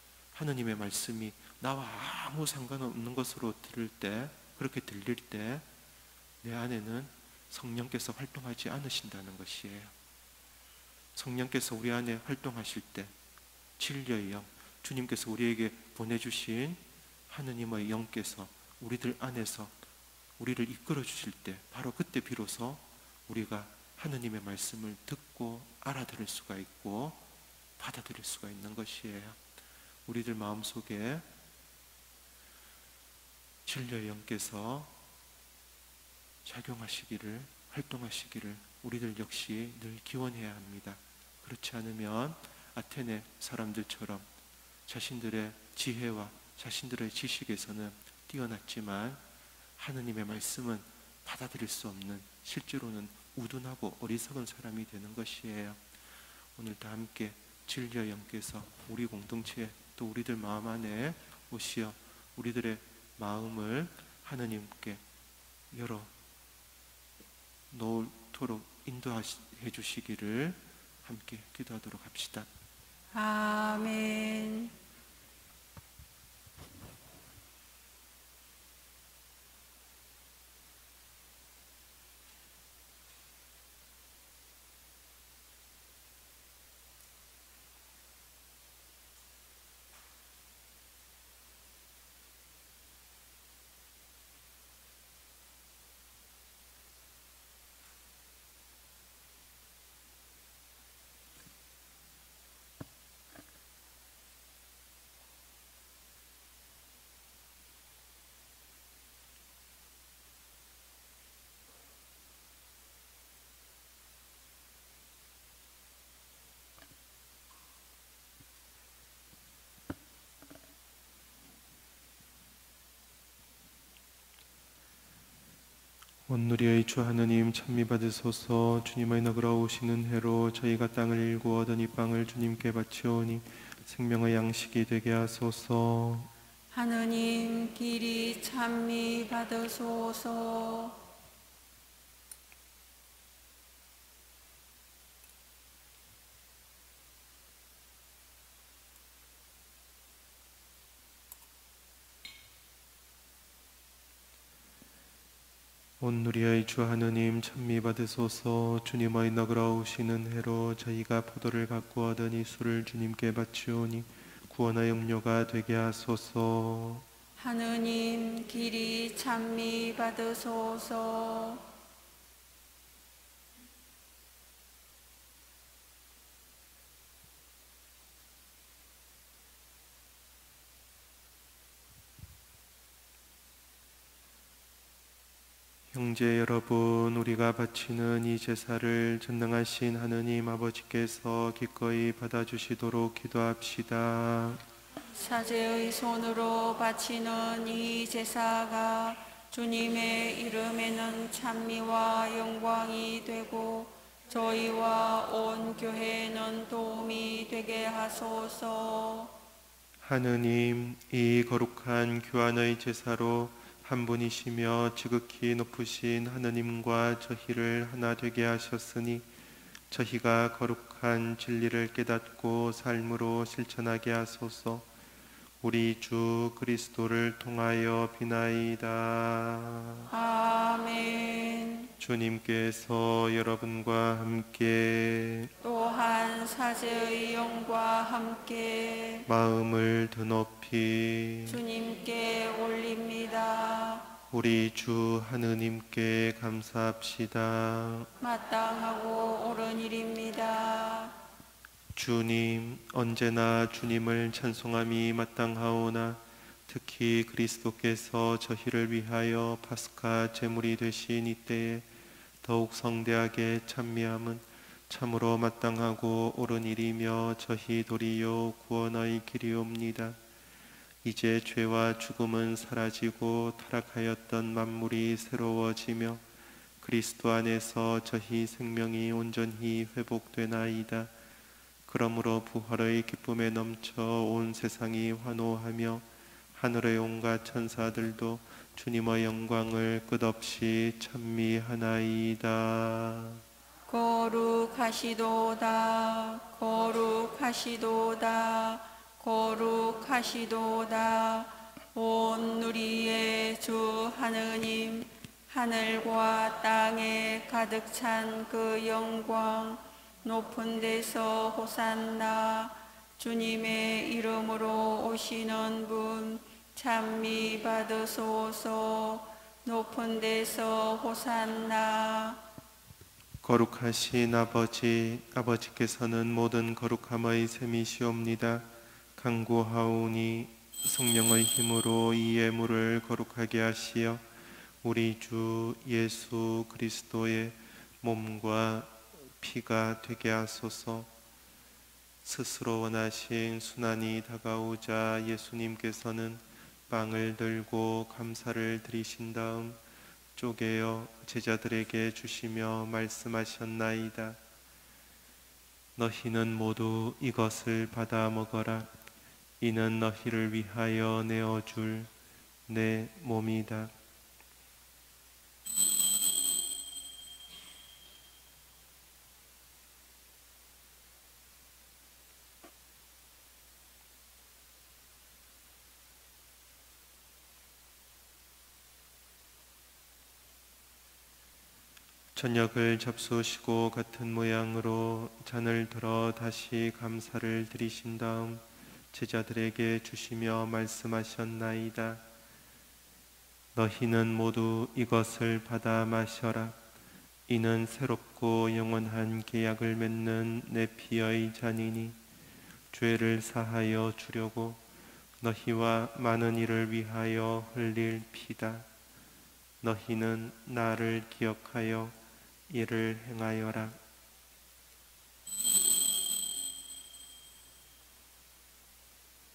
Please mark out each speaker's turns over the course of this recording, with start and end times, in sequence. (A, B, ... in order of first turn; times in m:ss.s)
0:00.3-0:05.6 A
0:06.4-0:09.9 A
0:11.1-0:13.1 A
0:13.8-0:19.7 A
0:20.4-0:27.2 A
0:27.8-0:29.4 A
0:30.0-0:31.2 A
0:33.6-0:34.9 A
0:36.4-0:44.3 A
0:44.9-0:49.2 A
0:49.8-0:55.8 A
0:56.6-1:05.0 A
1:05.7-1:06.1 A
1:07.7-1:12.5 A
1:13.1-1:14.7 B
2:06.3-2:16.3 A
2:16.7-2:21.0 B
2:36.0-2:47.0 A
2:47.4-2:51.7 B
3:05.9-3:14.6 A
3:15.2-3:29.3 B
3:30.0-3:39.3 A
3:39.9-3:44.9 A
3:45.6-3:50.1 A
3:50.1-3:51.9 B
3:52.0-3:55.5 A
3:55.6-3:59.3 B
3:59.3-4:01.6 A
4:01.5-4:04.1 B
4:04.3-4:08.1 A
4:08.2-4:11.2 B
4:11.9-4:21.9 A
4:22.4-4:30.2 A
4:31.0-4:36.2 A
4:36.8-4:41.1 A
4:41.8-4:53.4 A
4:53.9-5:22.4 B
5:23.4-5:34.2 A
5:34.8-5:41.1 A
5:42.2-5:49.8 A
5:50.4-5:54.4 A
5:56.0-5:58.9 A
5:59.6-6:02.1 A
6:02.7-6:03.9 A
6:22.3-6:32.2 A
6:33.7-6:36.8 A
6:37.5-6:42.2 A
6:42.9-6:44.8 A
6:45.4-6:48.9 A
6:49.8-6:52.2 A
6:52.7-6:54.0 A